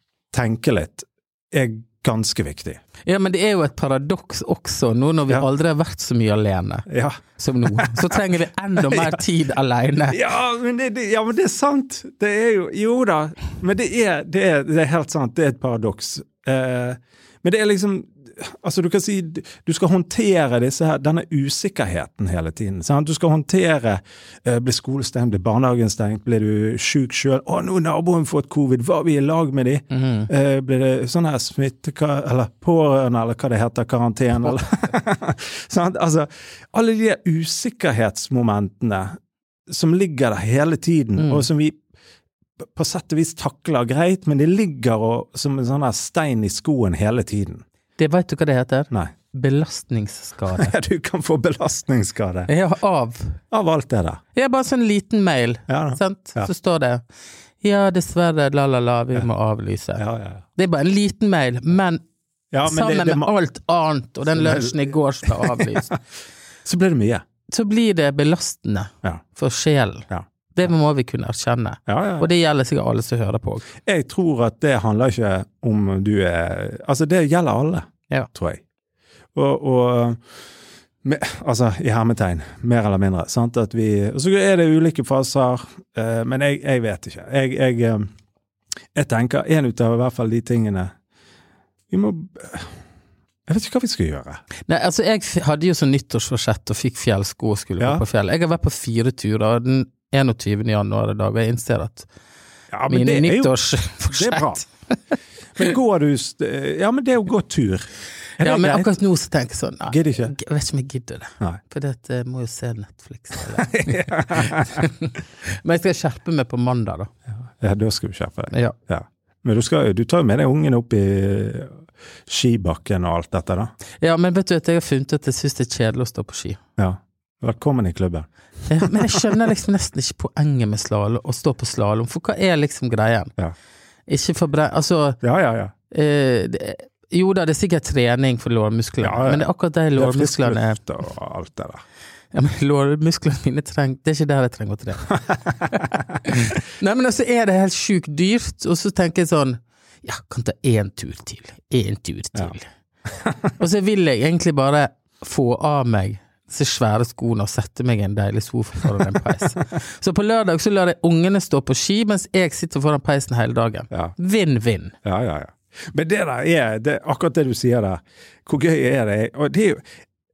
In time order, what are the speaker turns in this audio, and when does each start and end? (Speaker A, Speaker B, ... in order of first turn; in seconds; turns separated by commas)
Speaker A: 0.3-2.8, Speaker B: 3.0-6.8, Speaker A: 6.9-7.2, Speaker B: 7.4-10.2, Speaker A: 7.7-8.0, Speaker A: 8.9-9.1, Speaker A: 10.1-39.1, Speaker B: 29.9-30.3, Speaker A: 39.7-41.8, Speaker B: 41.2-41.5, Speaker A: 42.6-47.6, Speaker B: 48.0-50.7, Speaker A: 50.5-52.5, Speaker B: 52.5-53.4, Speaker A: 53.5-54.2, Speaker B: 54.3-57.0, Speaker A: 55.7-56.5, Speaker B: 57.6-60.0, Speaker A: 60.0-60.4, Speaker B: 60.5-62.0, Speaker A: 62.5-63.3, Speaker B: 62.6-65.9, Speaker A: 64.3-64.8, Speaker A: 65.3-65.6, Speaker A: 66.6-67.2, Speaker B: 67.5-73.7, Speaker A: 71.9-72.3, Speaker A: 73.8-78.6, Speaker A: 79.3-80.2, Speaker A: 81.0-88.1, Speaker A: 88.9-90.9, Speaker A: 91.9-92.7, Speaker A: 93.5-94.4, Speaker B: 94.7-102.1, Speaker A: 97.8-98.0, Speaker A: 102.7-103.5, Speaker B: 102.9-104.7, Speaker A: 104.1-104.7, Speaker A: 105.5-107.8, Speaker A: 108.4-108.9, Speaker B: 108.4-117.1, Speaker A: 109.9-110.3, Speaker A: 113.6-114.7, Speaker A: 117.6-123.7, Speaker B: 118.5-118.8, Speaker B: 124.0-126.6, Speaker A: 126.8-128.3, Speaker B: 128.7-133.3, Speaker B: 134.1-135.2, Speaker A: 135.2-135.7, Speaker B: 135.9-140.8, Speaker A: 139.0-141.8, Speaker B: 142.3-145.1, Speaker B: 145.7-152.7, Speaker B: 153.6-164.9, Speaker A: 165.0-169.8